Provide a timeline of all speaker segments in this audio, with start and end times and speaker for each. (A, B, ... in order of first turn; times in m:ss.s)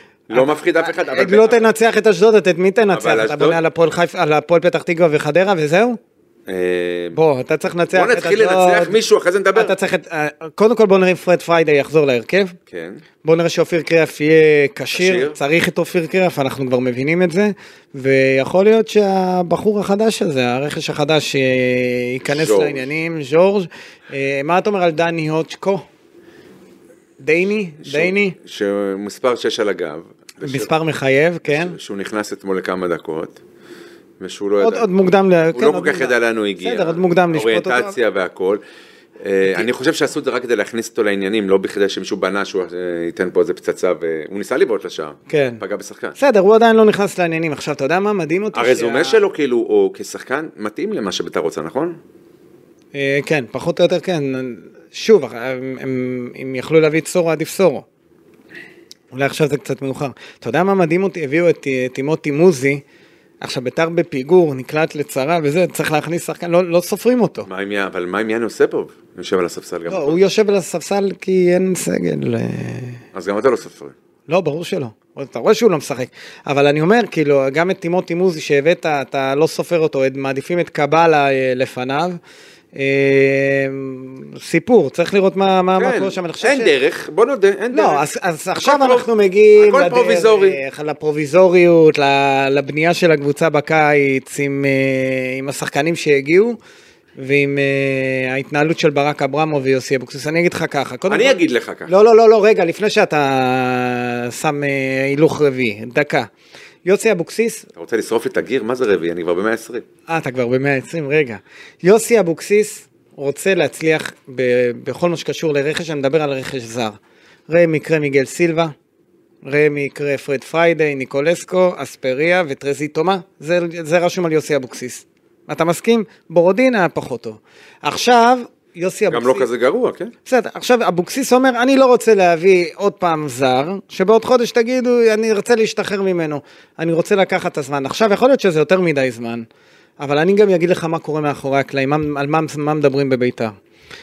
0:00.3-0:01.7 A
0:00.3-0:06.0 B
0:02.9-0:03.6 A
0:06.5-0:07.2 A
0:07.1-0:09.0 B
0:07.9-0:09.8 A
0:09.5-0:12.6 B
0:12.7-0:13.0 A
0:13.2-0:25.9 B
0:14.9-0:15.4 A
0:22.2-0:22.9 A
0:27.2-0:28.4 B
0:27.8-0:30.7 A
0:30.4-0:31.8 B
0:31.5-0:33.4 A
0:34.2-0:34.9 A
0:34.6-0:38.0 B
0:35.5-0:38.6 A
0:39.2-0:46.2 A
0:45.3-0:45.6 B
0:46.2-0:49.2 B
0:48.5-0:52.0 A
0:52.9-0:57.8 B
0:59.1-1:02.8 B
1:03.4-1:07.5 B
1:07.5-1:10.2 A
1:09.9-1:13.0 B
1:13.1-1:13.9 A
1:14.3-1:22.2 B
1:22.7-1:26.7 B
1:25.8-1:28.0 A
1:27.7-1:36.6 B
1:28.6-1:30.6 A
1:37.2-1:46.3 B
1:41.1-1:41.9 A
1:46.8-1:47.7 B
1:47.8-1:49.8 A
1:50.1-1:57.0 B
1:57.5-1:58.7 B
1:59.4-2:09.5 B
2:09.1-2:10.1 A
2:10.3-2:19.5 B
2:20.0-2:23.5 B